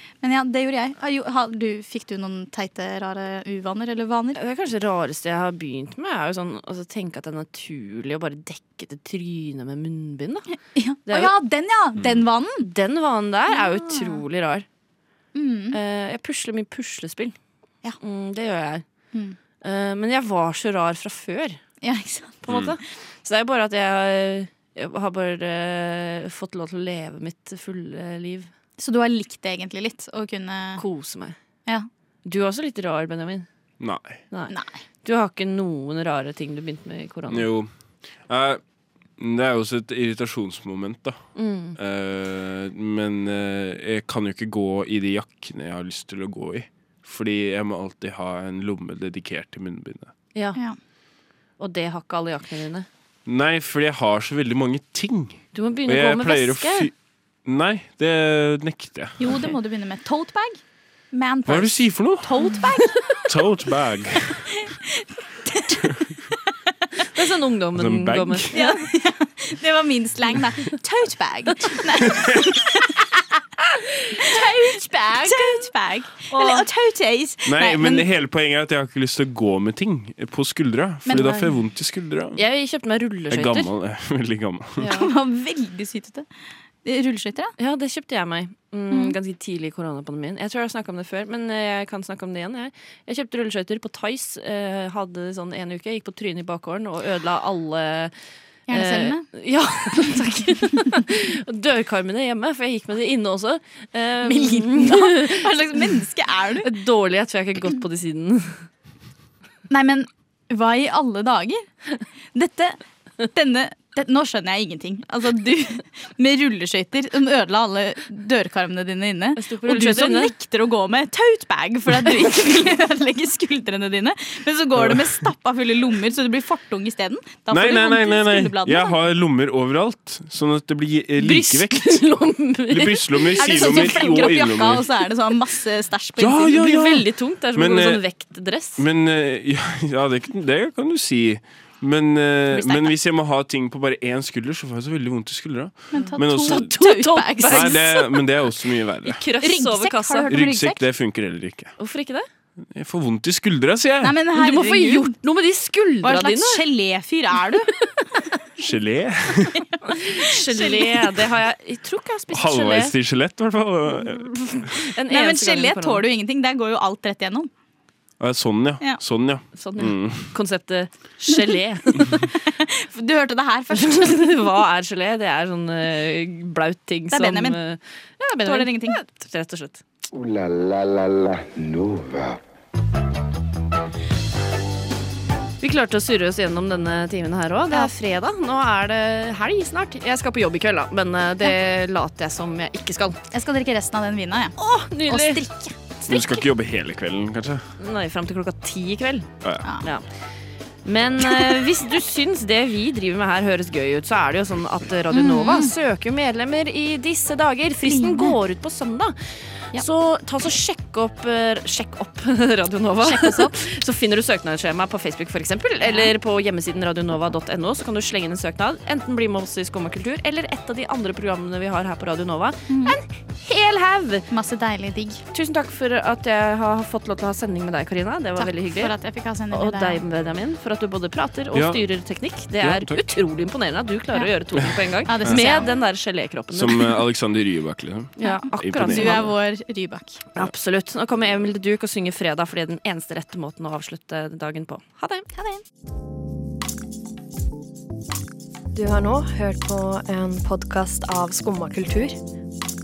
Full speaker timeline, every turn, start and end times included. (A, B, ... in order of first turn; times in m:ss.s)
0:00.2-0:04.4 A
0:04.4-0:10.5 B
0:10.8-0:12.7 A
0:11.1-0:11.3 B
0:12.6-0:14.6 B
0:13.5-0:14.2 A
0:15.3-0:15.8 A
0:15.7-0:17.4 B
0:18.0-0:18.8 B
0:19.6-0:21.6 B
0:21.8-0:22.6 A
0:22.5-0:28.5 B
0:22.5-0:22.8 C
0:28.8-0:30.8 A
0:30.8-0:31.4 B
0:32.2-0:33.5 B
0:33.8-0:34.2 C
0:34.5-0:34.8 A
0:35.0-0:37.5 B
0:37.3-0:37.7 C
0:38.3-0:38.6 C
0:39.2-0:41.2 C
0:41.4-0:41.8 B
0:41.8-0:50.1 C
0:50.4-0:50.6 B
0:51.6-0:52.9 B
0:53.3-0:56.9 C
0:55.5-0:56.9 B
0:57.4-0:59.4 C
0:59.2-1:00.6 A
1:01.1-1:03.2 A
1:01.5-1:02.4 C
1:03.2-1:04.5 C
1:04.5-1:06.0 A
1:07.1-1:08.8 B
1:07.7-1:08.5 C
1:08.5-1:13.2 A
1:12.0-1:12.4 C
1:13.8-1:15.7 B
1:14.2-1:18.1 A
1:16.3-1:16.6 B
1:17.4-1:22.4 C
1:21.1-1:21.5 A
1:22.4-1:23.7 B
1:23.3-1:24.8 C
1:24.8-1:25.1 B
1:24.8-1:26.3 A
1:26.8-1:27.5 A
1:27.6-1:38.1 B
1:38.7-1:39.3 A
1:38.7-1:45.5 B
1:44.2-1:46.7 A
1:46.6-1:48.7 B
1:49.7-1:51.7 A
1:52.4-2:09.0 A
1:59.4-2:00.3 B
2:04.8-2:05.1 C
2:07.5-2:12.1 C
2:11.2-2:14.2 B
2:12.7-2:14.9 C
2:13.4-2:16.6 A
2:16.2-2:18.0 C
2:16.5-2:18.8 B
2:18.8-2:26.7 C
2:22.5-2:22.9 A
2:25.9-2:27.9 A
2:25.9-2:28.2 B
2:27.5-2:29.2 C
2:29.0-2:30.3 B
2:29.4-2:30.8 A
2:30.3-2:31.7 C
2:31.8-2:32.3 B
2:32.7-2:34.2 C
2:34.0-2:35.2 A
2:34.3-2:36.6 B
2:36.0-2:37.7 A
2:38.6-2:39.6 C
2:39.8-2:42.9 B
2:40.3-2:41.2 A
2:42.3-2:44.7 C
2:44.3-2:46.0 B
2:45.1-2:47.5 A
2:48.2-2:50.4 C
2:49.6-2:52.3 B
2:52.4-2:54.4 A
2:53.7-2:59.8 B
2:57.1-2:57.6 A
2:58.3-2:59.0 A
3:00.1-3:02.4 D
3:05.6-3:13.2 B
3:13.3-3:15.8 A
3:14.6-3:15.4 B
3:16.1-3:17.7 C
3:17.8-3:19.3 B
3:19.4-3:19.7 C
3:20.8-3:29.2 B
3:25.1-3:25.7 A
3:27.8-3:28.4 A
3:29.7-3:44.3 B
3:33.0-3:33.6 A
3:35.8-3:36.1 A
3:42.7-3:43.0 A
3:44.3-3:45.2 A
3:45.3-3:48.9 B
3:48.4-3:50.0 A
3:49.5-3:57.0 B
3:51.5-3:51.8 C
3:52.6-3:53.2 C
3:55.0-3:55.7 A
3:56.5-3:59.3 C
3:58.2-3:59.3 B
3:58.2-4:00.2 A
4:00.4-4:05.3 B
4:05.3-4:05.6 A
4:08.7-4:12.2 E